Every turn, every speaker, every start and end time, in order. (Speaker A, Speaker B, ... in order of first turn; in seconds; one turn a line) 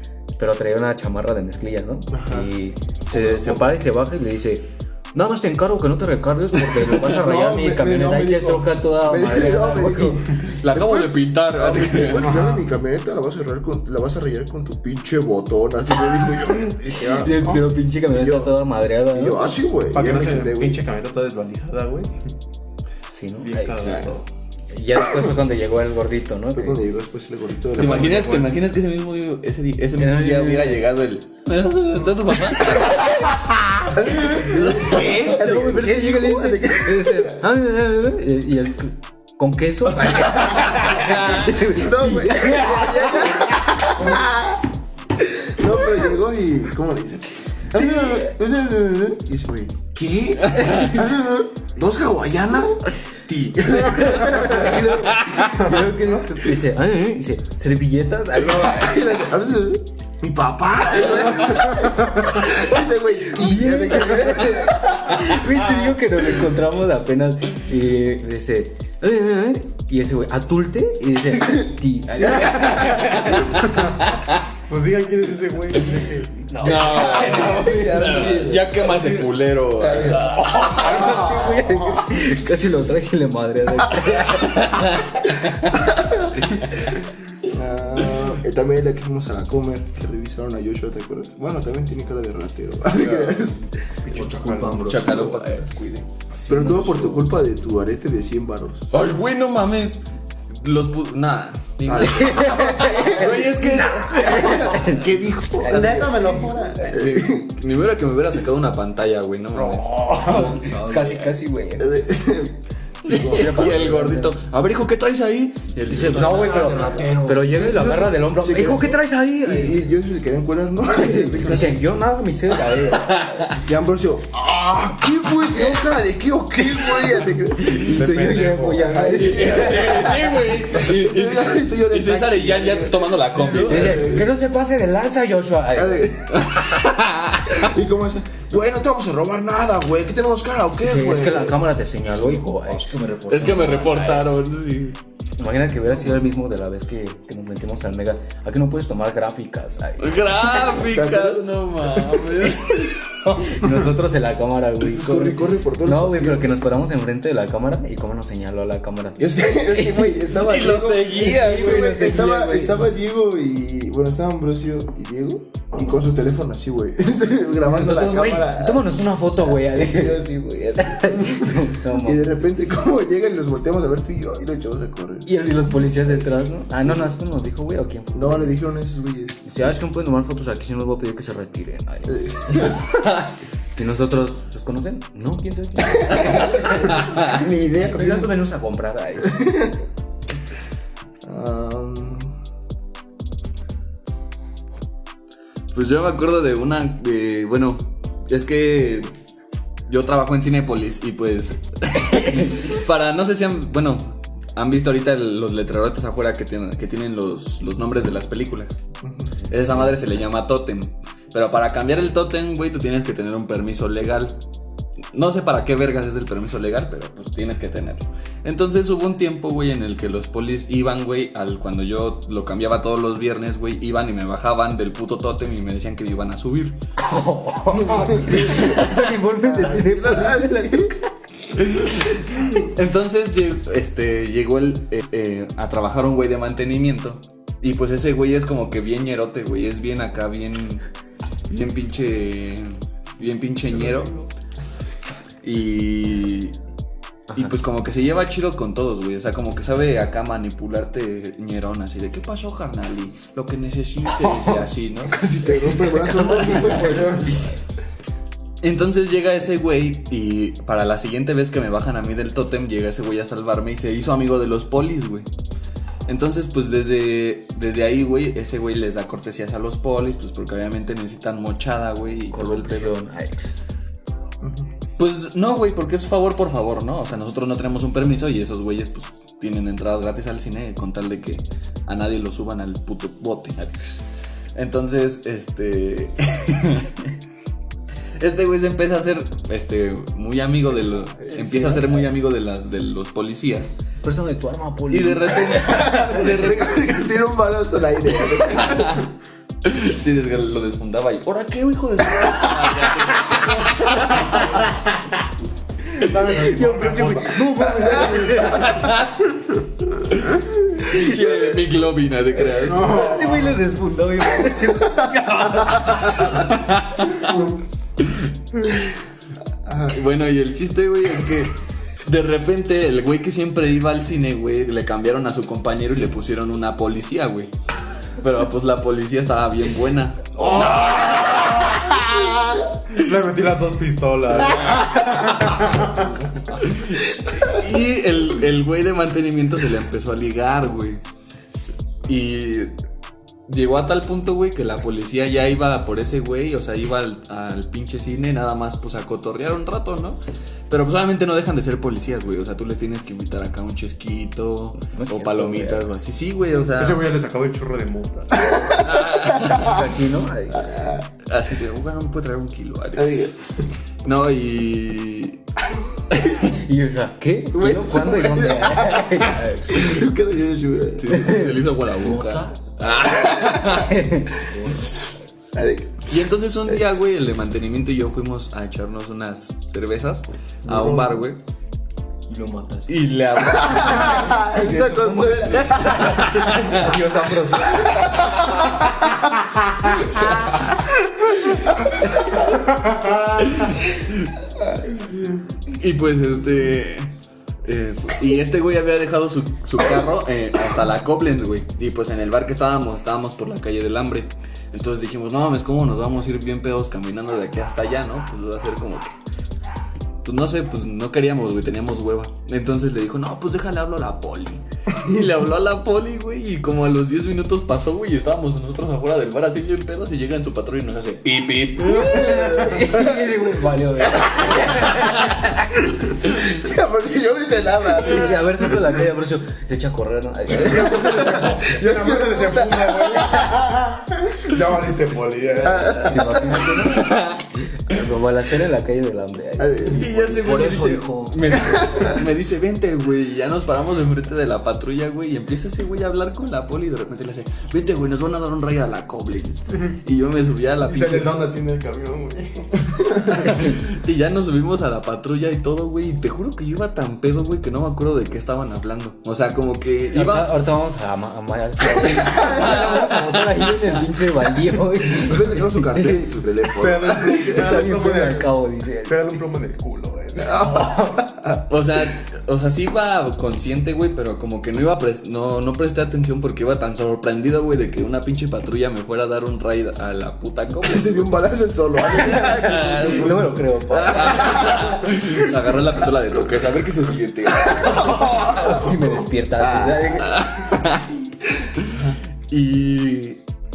Speaker A: 0.4-10.3
Speaker B: 2.1-2.5
Speaker B: 7.0-20.8
Speaker C: 10.5-12.4
Speaker D: 12.1-12.7
Speaker A: 17.1-19.6
Speaker D: 19.9-22.1
Speaker A: 23.1-24.1
Speaker D: 23.4-24.2
Speaker C: 23.8-24.2
Speaker A: 24.7-26.8
Speaker B: 26.5-28.4
Speaker C: 27.7-33.5
Speaker D: 27.8-28.4
Speaker A: 30.0-30.9
Speaker B: 33.9-37.4
Speaker C: 34.1-35.2
Speaker A: 34.5-43.4
Speaker C: 40.3-41.5
Speaker B: 41.7-54.9
Speaker A: 47.8-48.1
Speaker C: 50.4-51.0
Speaker A: 50.5-51.0
Speaker A: 53.8-59.1
Speaker C: 55.1-55.6
Speaker B: 58.3-65.5
Speaker C: 61.0-61.8
Speaker A: 63.3-73.7
Speaker B: 72.2-73.3
Speaker C: 72.8-74.4
Speaker D: 73.3-74.0
Speaker D: 74.7-77.5
Speaker C: 76.6-81.1
Speaker B: 76.7-79.2
Speaker B: 79.8-81.3
Speaker A: 80.5-84.9
Speaker D: 81.0-81.6
Speaker C: 84.3-85.3
Speaker B: 85.7-86.5
Speaker B: 87.4-93.7
Speaker D: 94.0-95.0
Speaker E: 94.1-95.7
Speaker C: 94.8-96.1
Speaker A: 96.3-97.2
Speaker B: 96.5-98.9
Speaker C: 98.9-105.0
Speaker B: 101.8-107.5
Speaker A: 102.0-105.1
Speaker A: 105.6-106.5
Speaker D: 105.6-107.0
Speaker C: 106.9-110.5
Speaker D: 109.5-110.6
Speaker E: 109.8-111.4
Speaker A: 110.2-112.1
Speaker B: 111.8-113.9
Speaker C: 113.0-117.0
Speaker A: 113.2-114.3
Speaker E: 115.9-117.6
Speaker A: 115.9-119.8
Speaker B: 117.5-121.8
Speaker A: 120.9-123.5
Speaker C: 122.7-123.6
Speaker B: 123.6-127.9
Speaker A: 127.6-130.1
Speaker D: 127.7-129.1
Speaker B: 128.8-134.3
Speaker C: 129.1-134.3
Speaker A: 133.6-136.2
Speaker B: 135.7-136.5
Speaker C: 136.3-137.7
Speaker B: 137.5-141.7
Speaker A: 140.8-143.3
Speaker E: 142.2-144.3
Speaker C: 143.3-145.0
Speaker A: 145.4-150.6
Speaker C: 150.0-153.0
Speaker B: 150.6-152.2
Speaker A: 153.2-160.1
Speaker B: 154.8-156.6
Speaker B: 159.2-177.1
Speaker C: 160.2-162.3
Speaker A: 161.2-162.8
Speaker A: 167.6-170.3
Speaker A: 170.8-172.5
Speaker A: 175.2-178.6
Speaker B: 178.1-179.4
Speaker A: 179.4-182.8
Speaker B: 182.1-183.0
Speaker A: 183.8-187.2
Speaker B: 186.0-188.3
Speaker C: 186.9-187.4
Speaker A: 187.8-189.4
Speaker B: 189.2-189.8
Speaker B: 191.2-192.3
Speaker C: 195.7-199.1
Speaker C: 199.9-208.8
Speaker B: 209.0-209.3
Speaker C: 209.5-214.4
Speaker C: 215.1-226.8
Speaker A: 227.0-231.1
Speaker B: 227.7-230.9
Speaker C: 228.5-229.0
Speaker C: 231.6-240.8
Speaker C: 241.5-244.2
Speaker C: 245.4-246.6
Speaker C: 247.3-255.2
Speaker A: 254.2-254.5
Speaker B: 255.1-257.5
Speaker A: 255.5-257.5
Speaker C: 256.5-256.8
Speaker C: 258.6-265.3
Speaker C: 266.1-272.9
Speaker A: 272.3-273.5
Speaker B: 274.4-274.7
Speaker C: 275.0-284.0
Speaker C: 284.5-287.1
Speaker C: 288.2-293.7
Speaker B: 290.7-291.9
Speaker A: 291.4-291.8
Speaker A: 294.0-296.2
Speaker C: 294.9-296.9
Speaker B: 295.7-299.1
Speaker C: 298.5-299.0
Speaker C: 299.6-304.6
Speaker D: 306.0-308.5
Speaker A: 306.3-308.9
Speaker B: 307.7-308.4
Speaker C: 308.5-309.2
Speaker C: 310.0-313.2
Speaker D: 312.5-313.6
Speaker A: 312.8-316.5
Speaker C: 316.1-317.5
Speaker C: 318.0-319.0
Speaker B: 319.6-320.0
Speaker C: 319.9-327.5
Speaker C: 328.2-332.3
Speaker D: 330.4-331.3
Speaker B: 331.7-332.8
Speaker D: 332.9-336.2
Speaker C: 334.5-335.7
Speaker C: 336.5-341.0
Speaker C: 342.0-342.7
Speaker C: 343.5-357.1
Speaker A: 354.8-355.9
Speaker D: 356.7-358.5
Speaker B: 358.4-359.7
Speaker C: 358.8-359.8
Speaker A: 359.4-360.9
Speaker B: 360.5-361.1
Speaker C: 361.2-363.4
Speaker B: 362.9-363.3
Speaker C: 364.0-365.4
Speaker A: 366.2-370.1
Speaker B: 367.5-371.3
Speaker C: 371.0-374.0
Speaker A: 371.1-371.6
Speaker E: 371.9-372.6
Speaker B: 373.2-373.8
Speaker A: 373.7-374.4
Speaker E: 374.4-375.1
Speaker B: 375.5-376.1
Speaker C: 376.1-381.4
Speaker E: 380.6-381.2
Speaker E: 382.3-382.9
Speaker C: 382.9-384.2
Speaker B: 383.4-386.6
Speaker A: 383.7-386.5
Speaker C: 386.1-386.9
Speaker D: 386.5-388.1
Speaker B: 387.8-388.2
Speaker D: 392.5-393.4
Speaker C: 393.4-394.3
Speaker B: 394.6-395.1
Speaker C: 395.7-397.1
Speaker C: 397.6-409.1
Speaker C: 410.2-422.1
Speaker A: 421.8-425.6
Speaker D: 421.9-422.9
Speaker B: 422.0-423.4
Speaker B: 424.0-425.2
Speaker B: 425.9-428.9
Speaker A: 428.0-431.4
Speaker D: 430.5-436.0
Speaker B: 430.5-433.6
Speaker B: 435.6-436.9
Speaker C: 435.7-436.2
Speaker A: 436.0-437.2
Speaker C: 436.7-437.5
Speaker A: 437.8-440.0
Speaker B: 439.6-440.6
Speaker C: 439.9-451.4
Speaker E: 440.4-441.6
Speaker B: 441.5-442.2
Speaker D: 450.9-453.7
Speaker C: 453.5-460.5
Speaker A: 460.1-466.2
Speaker B: 462.0-462.9
Speaker C: 462.0-464.0
Speaker B: 465.1-467.9
Speaker D: 466.8-470.6
Speaker A: 467.4-469.4
Speaker B: 470.4-471.6
Speaker A: 470.6-471.3
Speaker C: 471.7-481.3
Speaker B: 480.8-485.8
Speaker C: 482.2-483.4
Speaker A: 482.2-485.0
Speaker C: 484.0-488.8
Speaker B: 487.6-489.1
Speaker A: 487.9-490.4
Speaker B: 489.6-490.2
Speaker C: 490.2-491.2
Speaker C: 491.8-493.4